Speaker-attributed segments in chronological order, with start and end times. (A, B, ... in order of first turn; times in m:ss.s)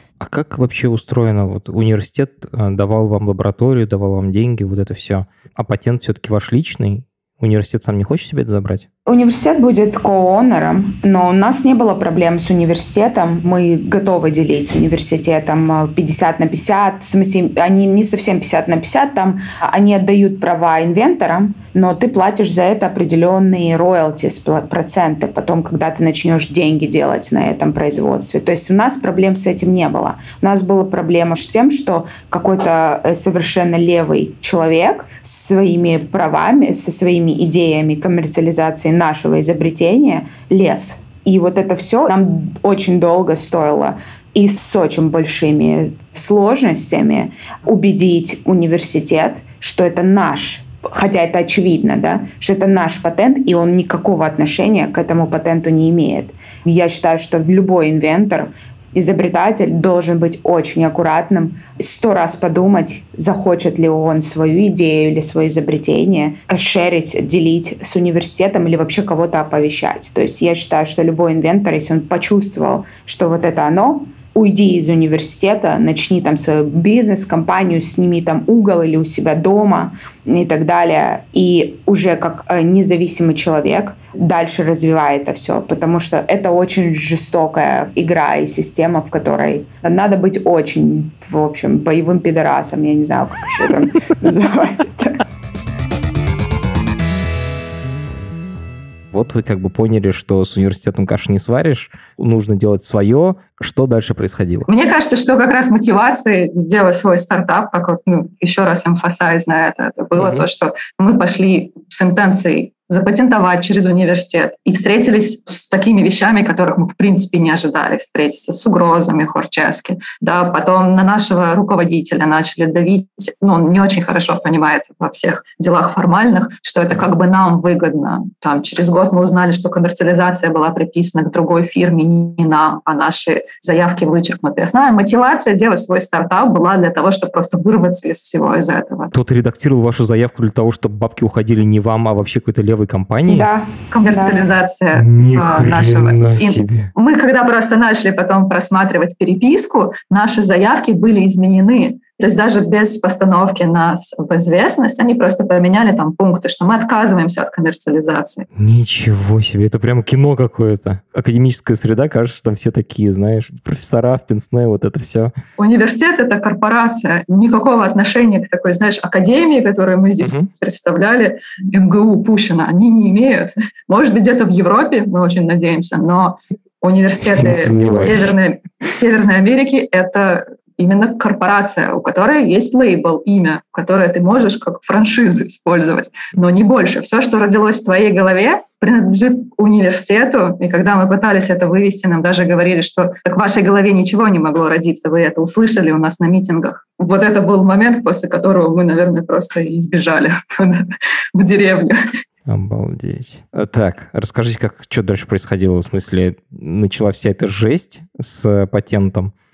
0:00.2-0:08.9 A
0:09.1-1:35.2 B
1:39.1-1:44.7 A
1:44.7-2:19.1 C
1:50.2-1:50.5 A
2:19.1-2:23.5 A
2:23.3-2:24.5 B
2:23.9-2:38.5 C
2:25.0-2:26.9 A
2:38.6-2:45.3 A
2:45.6-3:22.0 C
2:50.2-2:50.5 A
2:57.3-2:58.3 A
3:22.5-3:29.3 A